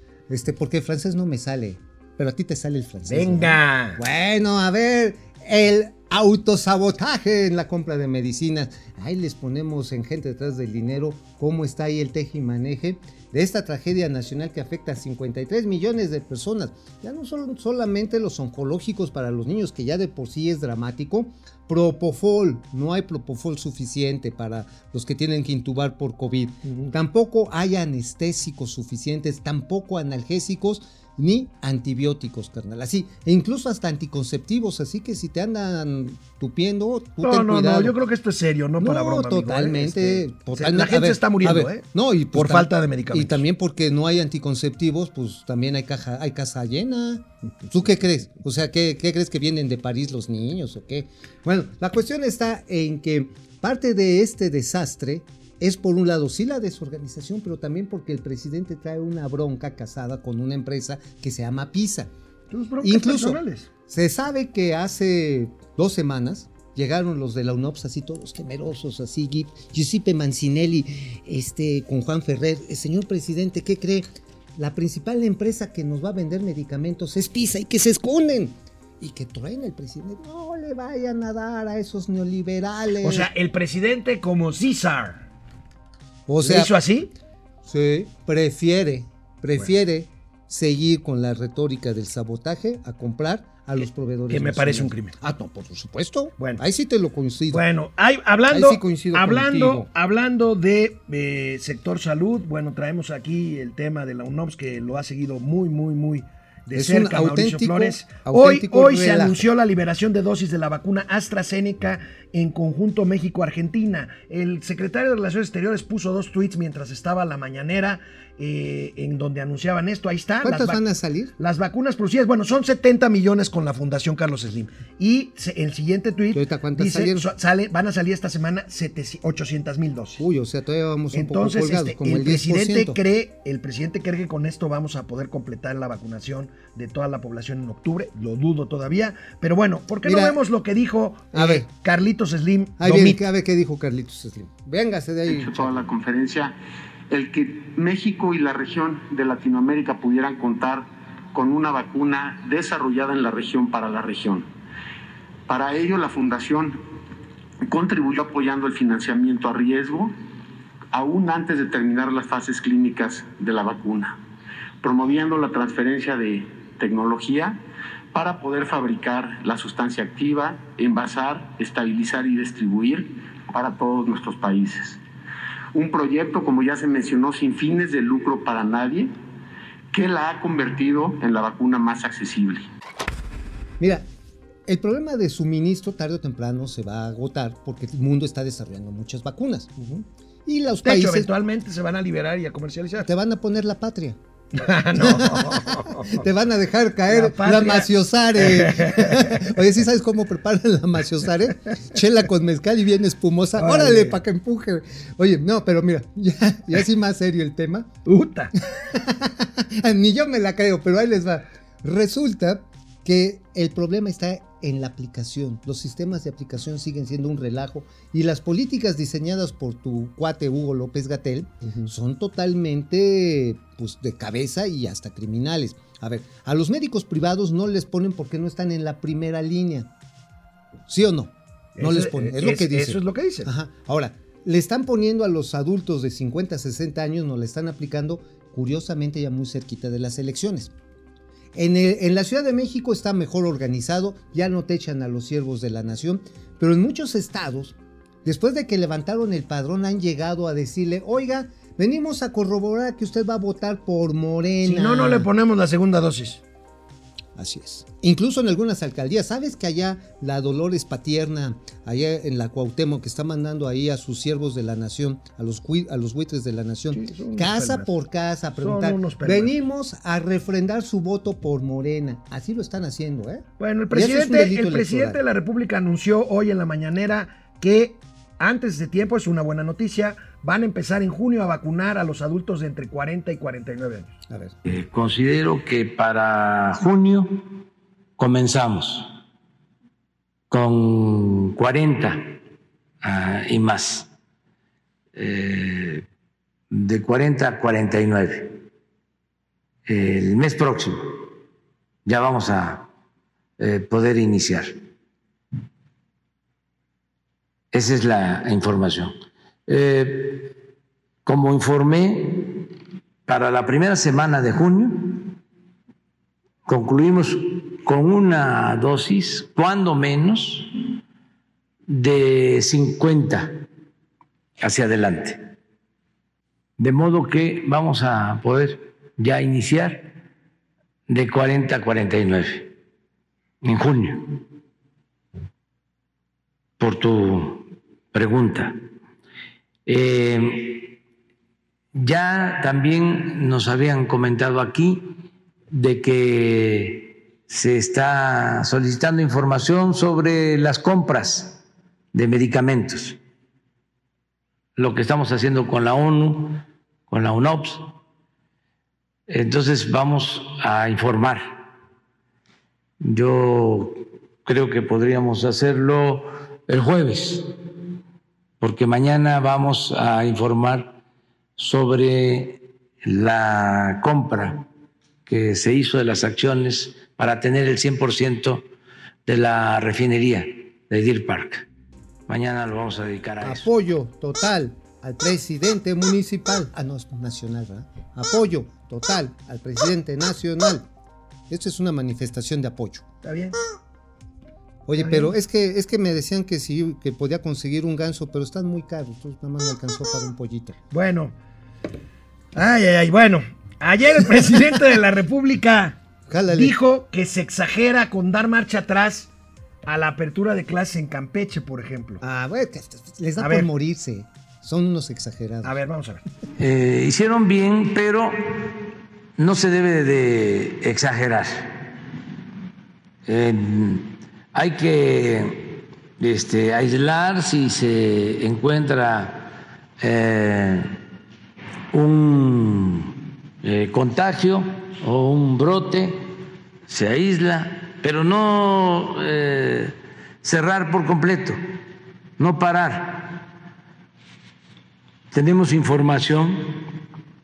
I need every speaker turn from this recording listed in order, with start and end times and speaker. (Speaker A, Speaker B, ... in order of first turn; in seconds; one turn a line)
Speaker A: 0.3-38.0
Speaker B: 3.1-4.0
Speaker B: 26.6-26.9
Speaker B: 37.2-43.4
Speaker A: 38.8-62.1
Speaker B: 62.5-63.7
Speaker A: 62.8-83.3
Speaker B: 83.0-85.2
Speaker A: 86.3-86.7
Speaker B: 86.4-87.1
Speaker A: 87.6-97.6
Speaker B: 94.3-95.1
Speaker B: 97.5-120.8
Speaker A: 98.5-99.9
Speaker A: 106.7-109.4
Speaker A: 120.4-121.3
Speaker B: 121.4-130.2
Speaker A: 126.3-127.3
Speaker A: 130.2-133.0
Speaker B: 131.1-143.2
Speaker A: 140.0-140.4
Speaker A: 141.3-141.7
Speaker A: 142.8-145.8
Speaker C: 145.3-146.5
Speaker C: 147.1-154.5
Speaker C: 155.5-156.8
Speaker C: 157.6-160.1
Speaker C: 160.9-164.2
Speaker C: 164.8-167.6
Speaker C: 168.1-175.0
Speaker C: 175.7-179.1
Speaker C: 179.9-182.7
Speaker A: 183.8-184.1
Speaker A: 184.7-189.7
Speaker B: 189.8-190.0
Speaker A: 190.4-191.3
Speaker B: 190.8-193.1
Speaker A: 193.0-194.2
Speaker B: 194.5-196.2
Speaker A: 194.9-207.9
Speaker B: 197.1-199.5
Speaker B: 203.6-204.2
Speaker B: 208.1-208.5
Speaker A: 208.8-229.9
Speaker A: 230.9-240.7
Speaker B: 231.8-233.5
Speaker A: 241.5-255.3
Speaker B: 254.6-256.4
Speaker A: 257.4-275.2
Speaker B: 266.9-267.9
Speaker B: 268.6-269.5
Speaker B: 273.6-284.1
Speaker D: 284.6-287.5
Speaker D: 288.2-289.1
Speaker D: 290.5-292.4
Speaker D: 293.0-294.1
Speaker D: 295.1-296.0
Speaker D: 296.7-298.6
Speaker D: 299.9-301.3
Speaker D: 302.0-302.9
Speaker D: 303.6-304.7
Speaker D: 307.7-309.1
Speaker D: 309.7-310.5
Speaker D: 311.2-312.7
Speaker D: 313.3-315.3
Speaker D: 316.6-320.7
Speaker D: 321.9-323.5
Speaker D: 324.6-325.4
Speaker D: 326.8-330.1
Speaker D: 331.1-332.7
Speaker D: 333.6-334.4
Speaker D: 336.8-338.8
Speaker D: 339.9-340.9
Speaker D: 341.9-345.1
Speaker D: 345.7-351.6
Speaker D: 352.1-353.2
Speaker D: 354.8-357.9
Speaker D: 359.3-361.6
Speaker D: 363.0-367.5
Speaker D: 368.6-370.9
Speaker D: 371.6-374.6
Speaker D: 375.2-378.6
Speaker D: 379.2-381.6
Speaker D: 382.3-383.7
Speaker A: 383.4-390.9
Speaker A: 391.5-393.1
Speaker B: 393.2-393.6
Speaker A: 394.9-400.8
Speaker B: 395.0-395.3
Speaker B: 400.9-401.3
Speaker B: 402.5-406.0
Speaker A: 406.3-406.7
Speaker B: 406.5-409.3
Speaker B: 409.9-412.2
Speaker A: 412.2-415.8
Speaker B: 413.4-413.7
Speaker B: 415.6-416.2
Speaker D: 416.6-418.8
Speaker D: 419.4-421.7
Speaker D: 423.2-430.9
Speaker D: 431.9-436.2
Speaker D: 436.9-441.6
Speaker D: 442.4-443.5
Speaker D: 445.3-446.9